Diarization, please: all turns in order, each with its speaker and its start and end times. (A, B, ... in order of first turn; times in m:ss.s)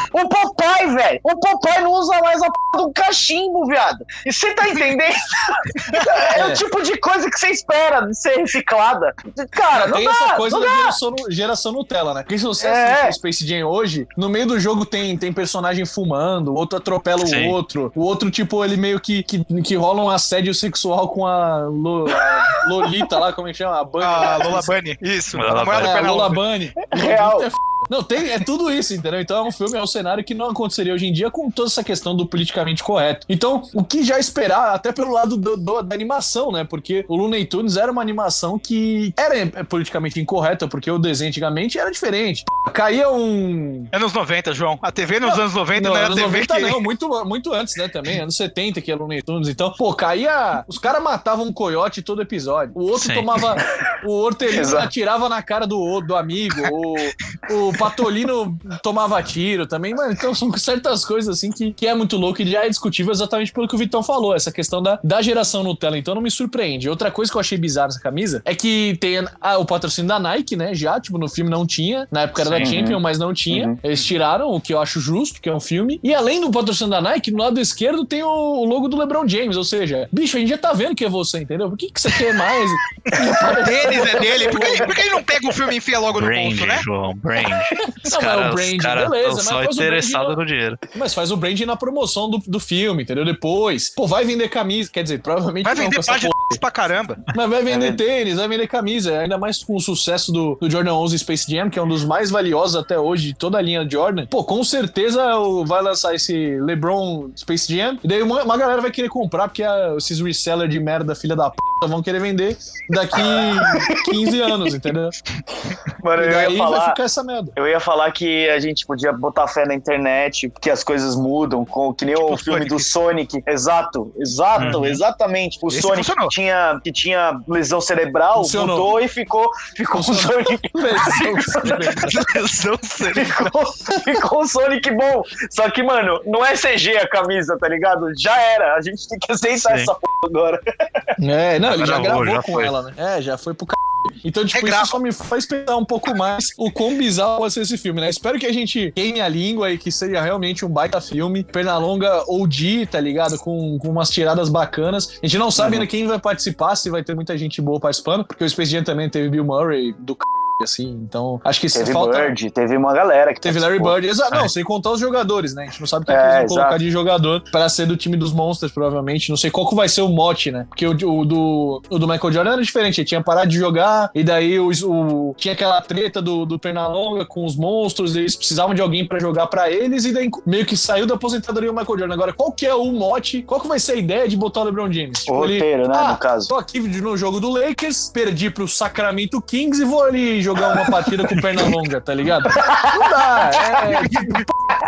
0:00.1-0:11.0 A
0:06.3-0:06.6 B
0:09.7-0:24.7 B
0:12.6-0:13.1 A
0:17.2-0:17.6 C
0:24.0-0:26.4 D
0:25.3-0:26.1 C
0:25.8-0:43.9 B
0:26.9-0:27.5 A
0:43.9-0:46.8 D
0:45.2-1:24.9 B
0:52.9-0:53.4 C
0:54.5-0:54.9 A
1:12.6-1:13.8 A
1:23.3-1:26.8 D
1:23.5-1:24.6 A
1:26.1-1:30.8 C
1:27.8-1:30.4 B
1:30.9-1:36.6 B
1:35.6-1:37.2 D
1:37.3-1:55.1 B
1:37.7-1:38.0 A
1:53.6-1:54.0 A
1:56.0-1:57.0 A
1:56.2-1:57.6 B
1:57.5-2:12.1 A
2:02.1-2:02.9 D
2:04.6-2:04.8 D
2:04.6-2:05.0 C
2:05.7-2:06.3 D
2:08.4-2:09.0 B
2:09.8-2:12.2 B
2:11.9-2:13.5 D
2:13.1-2:20.6 A
2:19.6-2:19.9 C
2:21.2-2:42.4 B
2:21.6-2:22.7 C
2:24.5-2:25.0 D
2:35.6-2:35.8 A
2:41.7-2:44.0 A
2:43.4-3:14.5 B
2:46.1-2:46.8 A
3:05.3-3:06.5 A
3:10.7-3:11.0 A
3:12.5-3:12.9 A
3:14.1-3:14.4 D